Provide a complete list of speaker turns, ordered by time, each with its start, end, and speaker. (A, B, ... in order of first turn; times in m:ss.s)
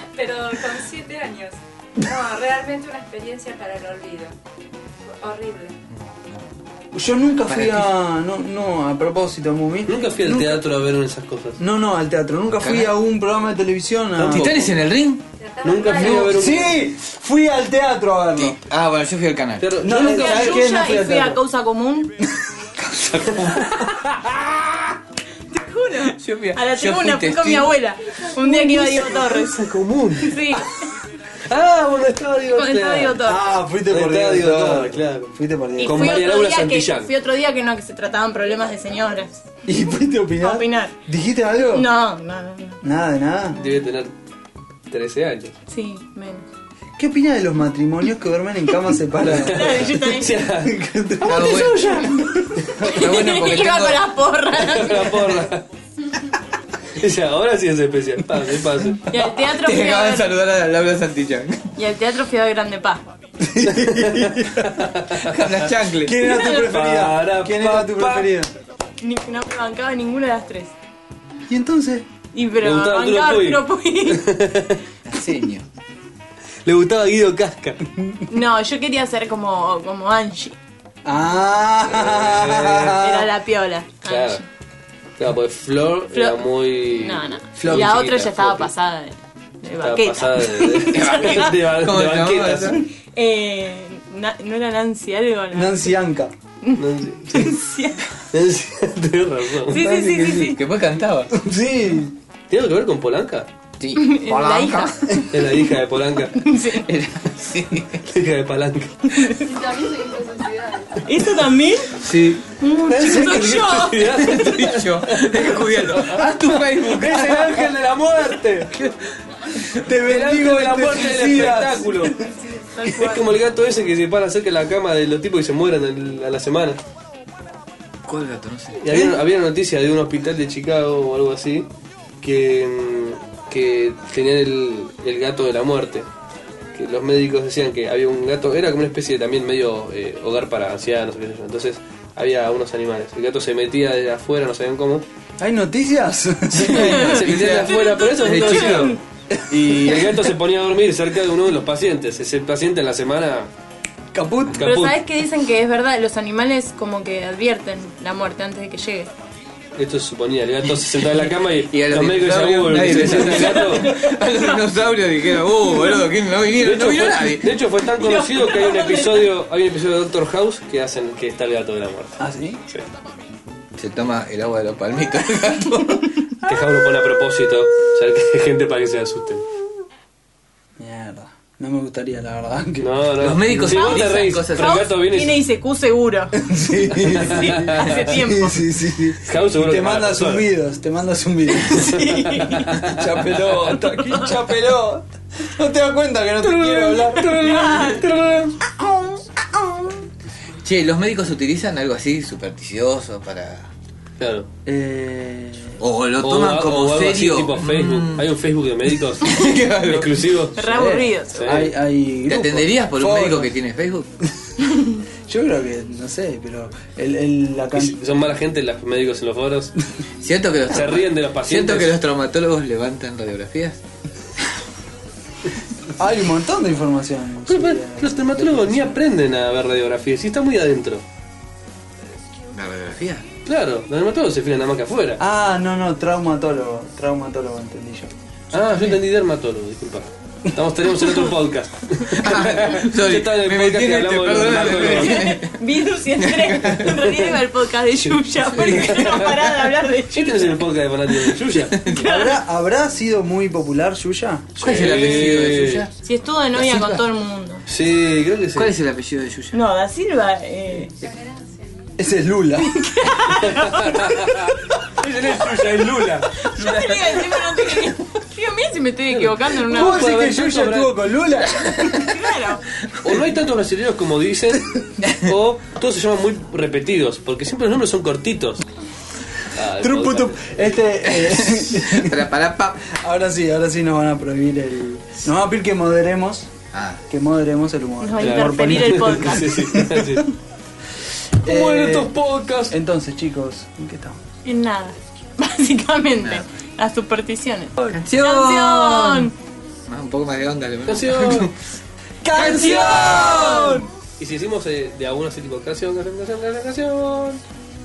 0:00.1-0:04.3 A
0:05.2-0:05.7 A
0:06.9-0:10.6 B
0:07.5-0:07.9 C
0:09.8-0:11.6 D
0:11.6-0:14.5 B
0:12.6-0:12.9 C
0:14.2-0:14.8 D
0:14.2-0:15.2 C
0:15.4-0:16.6 A
0:15.6-0:16.8 D
0:16.0-0:18.6 B
0:18.4-0:19.7 C
0:19.6-0:20.6 D
0:19.8-0:21.4 B
0:20.0-0:22.2 E
0:23.4-0:23.7 C
0:23.7-0:24.3 D
0:25.5-0:30.8 E
0:26.2-0:27.8 C
0:28.4-0:30.4 D
0:31.5-0:33.2 D
0:32.5-0:33.4 E
0:33.2-0:36.4 B
0:33.9-0:37.1 D
0:35.8-0:39.4 E
0:39.6-0:41.9 B
0:40.4-0:40.9 E
0:41.7-0:42.8 E
0:42.8-0:43.6 B
0:43.6-0:44.1 D
0:44.9-0:45.5 D
0:45.7-0:46.4 E
0:47.0-0:52.7 B
0:49.2-0:50.8 D
0:49.4-0:50.4 E
0:51.2-0:52.0 C
0:51.2-0:55.4 E
0:52.8-0:54.1 C
0:54.6-0:55.6 D
0:57.0-0:59.1 D
0:59.1-1:00.3 E
0:59.2-1:01.7 C
1:01.8-1:03.0 E
1:03.4-1:04.8 B
1:03.6-1:05.6 D
1:05.2-1:06.2 C
1:06.0-1:08.5 B
1:06.2-1:06.6 E
1:06.4-1:08.3 D
1:09.0-1:10.7 E
1:11.5-1:12.0 B
1:12.3-1:14.3 E
1:12.6-1:14.8 D
1:15.0-1:15.6 C
1:16.6-1:17.8 D
1:17.9-1:18.2 B
1:18.3-1:20.6 E
1:21.0-1:23.3 B
1:21.9-1:23.0 D
1:22.9-1:24.4 E
1:24.0-1:24.4 D
1:25.2-1:28.7 D
1:26.1-1:31.5 E
1:27.6-1:27.9 B
1:29.8-1:32.8 D
1:30.9-1:32.8 C
1:33.0-1:35.8 E
1:35.5-1:36.3 B
1:36.6-1:38.1 E
1:36.8-1:37.6 D
1:38.3-1:39.8 D
1:39.6-1:40.6 E
1:39.7-1:41.3 C
1:41.3-1:42.2 B
1:42.5-1:43.5 D
1:43.8-1:45.2 C
1:44.0-1:45.5 E
1:45.3-1:46.4 D
1:46.4-1:46.9 E
1:46.8-1:48.0 C
1:48.0-1:49.2 D
1:49.1-1:49.5 E
1:49.4-1:51.0 A
1:51.0-1:51.9 E
1:52.0-1:52.4 C
1:52.6-1:54.5 E
1:52.8-1:53.7 B
1:53.0-1:56.2 D
1:54.2-1:57.6 C
1:56.2-1:58.7 B
1:57.0-1:58.7 D
1:59.7-2:02.3 B
2:00.0-2:02.2 D
2:02.2-2:03.3 E
2:02.9-2:06.8 D
2:08.0-2:08.8 C
2:08.8-2:11.7 D
2:08.9-2:09.1 B
2:12.2-2:16.1 D
2:16.7-2:25.0 D
2:25.4-2:27.2 B
2:26.5-2:29.0 C
2:26.7-2:33.5 D
2:26.8-2:29.0 E
2:29.3-2:30.1 B
2:34.1-2:34.6 B
2:34.5-2:35.0 D
2:34.6-2:39.1 E
2:39.8-2:43.9 D
2:41.7-2:47.6 C
2:43.4-2:44.6 E
2:46.6-2:52.8 D
2:47.8-2:49.3 E
2:52.2-2:52.6 B
2:53.8-2:56.2 C
2:56.4-2:59.4 D
3:00.8-3:03.7 B
3:02.8-3:05.4 D
3:03.2-3:04.9 C
3:03.7-3:06.4 E
3:06.3-3:17.5 B
3:07.1-3:08.1 D
3:07.1-3:08.7 E
3:09.2-3:10.4 D
3:11.6-3:12.9 E
3:11.9-3:13.8 D
3:13.8-3:14.3 E
3:16.4-3:18.6 D
3:17.4-3:18.0 E
3:18.8-3:19.3 B
3:20.6-3:23.7 C
3:24.2-3:24.5 D
3:24.6-3:25.8 B
3:25.8-3:28.3 C
3:26.2-3:30.6 D
3:29.2-3:30.2 C
3:30.6-3:31.6 E
3:30.6-3:33.5 B
3:31.3-3:31.7 D
3:32.3-3:34.1 C
3:35.3-3:38.0 B
3:37.7-3:39.7 D
3:40.2-3:43.8 C
3:40.7-3:42.0 D
3:46.0-3:49.0 B
3:47.5-3:51.0 D
3:52.5-3:53.2 C
3:53.4-3:55.2 D
3:55.2-3:58.1 B
3:58.5-4:05.3 D
4:02.1-4:05.6 C
4:04.8-4:10.6 E
4:06.1-4:07.1 C
4:08.4-4:09.5 C
4:08.7-4:09.3 D
4:10.1-4:11.9 D
4:11.7-4:12.1 C
4:11.9-4:12.4 E
4:11.9-4:14.6 B
4:14.6-4:15.8 D
4:14.6-4:15.9 C
4:16.0-4:17.6 E
4:16.5-4:17.1 C
4:17.7-4:18.7 D
4:18.5-4:19.6 C
4:19.5-4:20.9 E
4:21.0-4:21.9 A
4:22.0-4:23.0 B
4:22.6-4:24.2 E
4:23.4-4:26.4 D
4:26.4-4:30.2 E
4:26.5-4:27.5 C
4:29.2-4:31.2 D
4:29.7-4:32.1 B
4:31.8-4:32.7 E
4:33.0-4:38.6 D
4:39.5-4:40.8 D
4:39.8-4:42.2 B
4:41.1-4:42.9 C
4:42.9-4:46.5 B
4:46.7-4:47.0 C
4:47.1-4:50.3 B
4:48.0-4:49.8 E
4:48.2-4:50.3 D
4:51.4-4:52.7 D
4:51.4-4:52.1 B
4:52.7-4:54.2 B
4:54.4-4:59.3 E
4:56.2-4:56.4 C
4:57.9-4:59.3 C
4:59.9-5:01.5 C
5:00.9-5:01.5 D
5:02.2-5:03.8 B
5:02.3-5:03.8 E
5:02.3-5:03.8 C
5:04.2-5:07.4 D